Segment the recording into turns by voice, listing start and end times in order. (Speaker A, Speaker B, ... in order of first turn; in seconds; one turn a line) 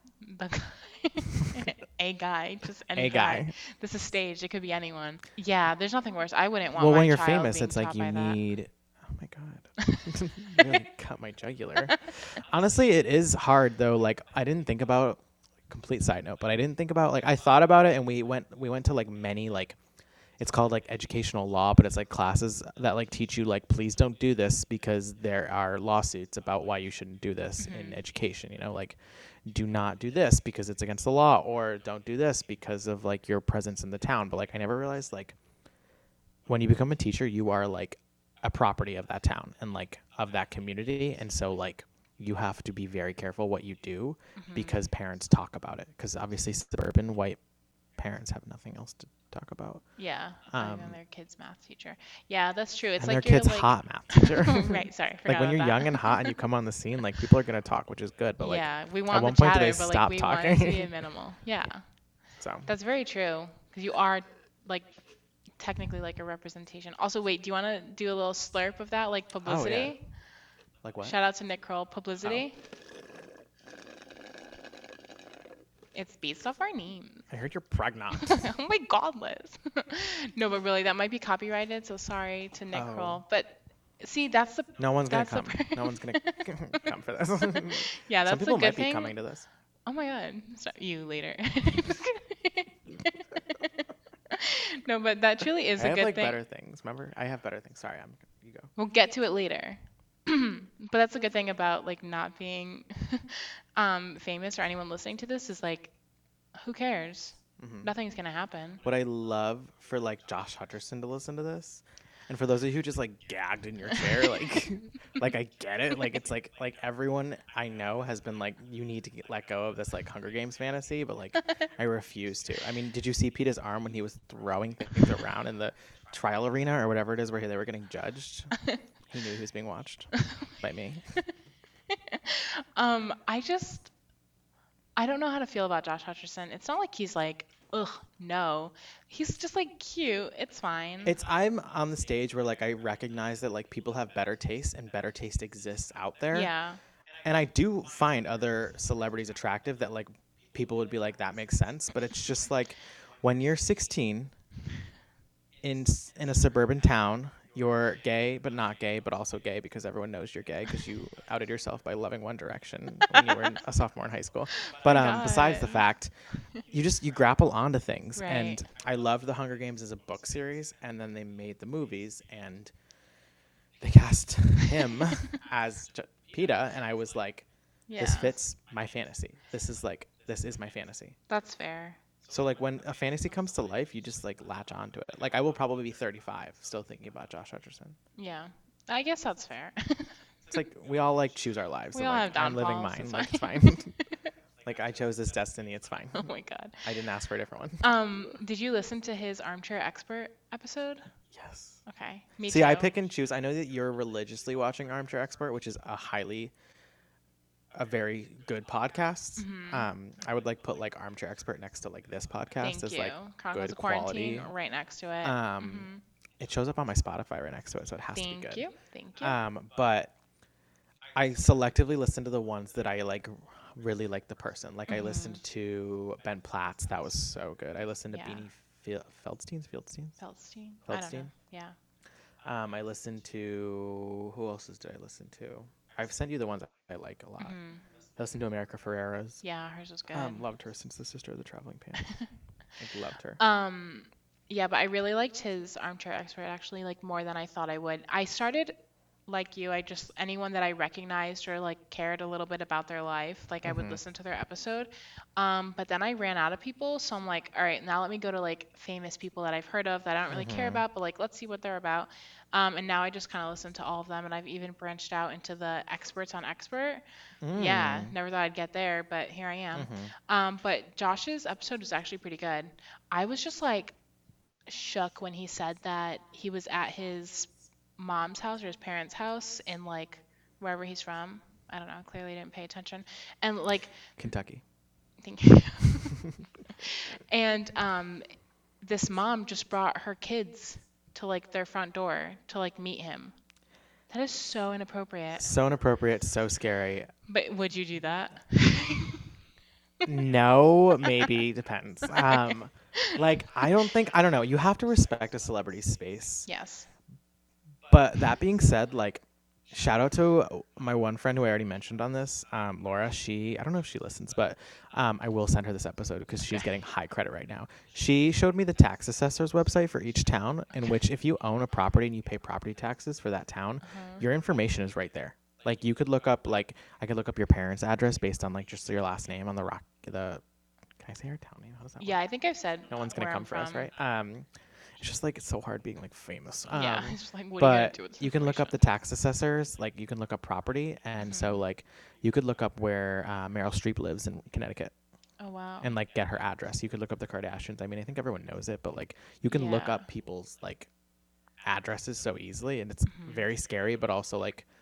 Speaker A: 0.2-8.4
Speaker B: 2.9-3.5
Speaker B: 6.8-19.8
Speaker B: 20.4-35.4
Speaker A: 27.6-28.0
Speaker B: 36.5-47.4
Speaker A: 44.4-44.8
Speaker B: 48.0-49.9
Speaker A: 50.0-56.3
Speaker B: 50.5-51.0
Speaker B: 53.0-61.0
Speaker A: 58.4-61.8
Speaker B: 62.4-62.7
Speaker A: 62.7-65.0
Speaker A: 65.6-70.1
Speaker B: 69.4-70.0
Speaker B: 70.8-71.2
Speaker A: 71.0-72.6
Speaker A: 75.9-77.3
Speaker B: 77.3-78.5
Speaker A: 78.2-86.8
Speaker B: 82.7-83.2
Speaker B: 84.8-89.5
Speaker A: 87.7-89.2
Speaker A: 89.9-96.4
Speaker B: 95.8-98.7
Speaker A: 98.8-105.9
Speaker A: 106.6-108.8
Speaker B: 107.6-107.9
Speaker B: 108.8-131.1
Speaker A: 130.2-130.4
Speaker A: 131.9-133.9
Speaker A: 135.0-141.2
Speaker B: 141.0-146.5
Speaker A: 146.3-146.8
Speaker B: 147.2-154.3
Speaker B: 155.6-172.7
Speaker A: 164.6-165.8
Speaker A: 168.2-168.6
Speaker B: 173.8-181.2
Speaker A: 177.9-178.3
Speaker A: 181.3-182.0
Speaker B: 182.3-188.0
Speaker A: 188.2-190.2
Speaker B: 190.5-194.0
Speaker A: 191.9-194.3
Speaker B: 194.6-197.9
Speaker A: 196.1-196.9
Speaker A: 197.8-201.1
Speaker B: 201.3-201.8
Speaker A: 201.9-202.9
Speaker B: 202.5-206.5
Speaker B: 207.7-214.5
Speaker A: 209.4-209.9
Speaker A: 212.6-216.0
Speaker B: 215.2-218.7
Speaker A: 218.1-219.4
Speaker B: 219.2-220.1
Speaker B: 221.1-230.2
Speaker A: 224.9-225.4
Speaker A: 228.1-228.5
Speaker A: 230.2-231.8
Speaker B: 230.9-231.3
Speaker B: 232.4-237.6
Speaker A: 237.4-237.8
Speaker B: 238.2-239.4
Speaker A: 239.4-240.5
Speaker B: 240.1-242.3
Speaker A: 242.0-242.3
Speaker B: 242.8-243.4
Speaker A: 243.4-248.8
Speaker A: 249.3-273.9
Speaker B: 253.7-254.0
Speaker B: 260.3-260.8
Speaker B: 267.4-268.1
Speaker B: 269.7-270.1
Speaker A: 274.7-284.0
Speaker B: 284.2-284.6
Speaker A: 285.2-288.3
Speaker A: 288.8-293.4
Speaker A: 294.1-295.5
Speaker B: 295.4-297.1
Speaker A: 297.3-299.3
Speaker B: 300.0-306.5
Speaker A: 302.3-303.1
Speaker A: 306.5-306.9
Speaker B: 307.9-330.4
Speaker A: 323.8-324.2
Speaker B: 331.0-332.2
Speaker A: 332.0-333.9
Speaker B: 332.9-344.9
Speaker A: 336.7-338.8
Speaker A: 341.2-341.6
Speaker A: 345.4-345.9
Speaker B: 345.8-350.9
Speaker A: 349.5-350.1
Speaker B: 351.6-354.7
Speaker A: 353.1-353.4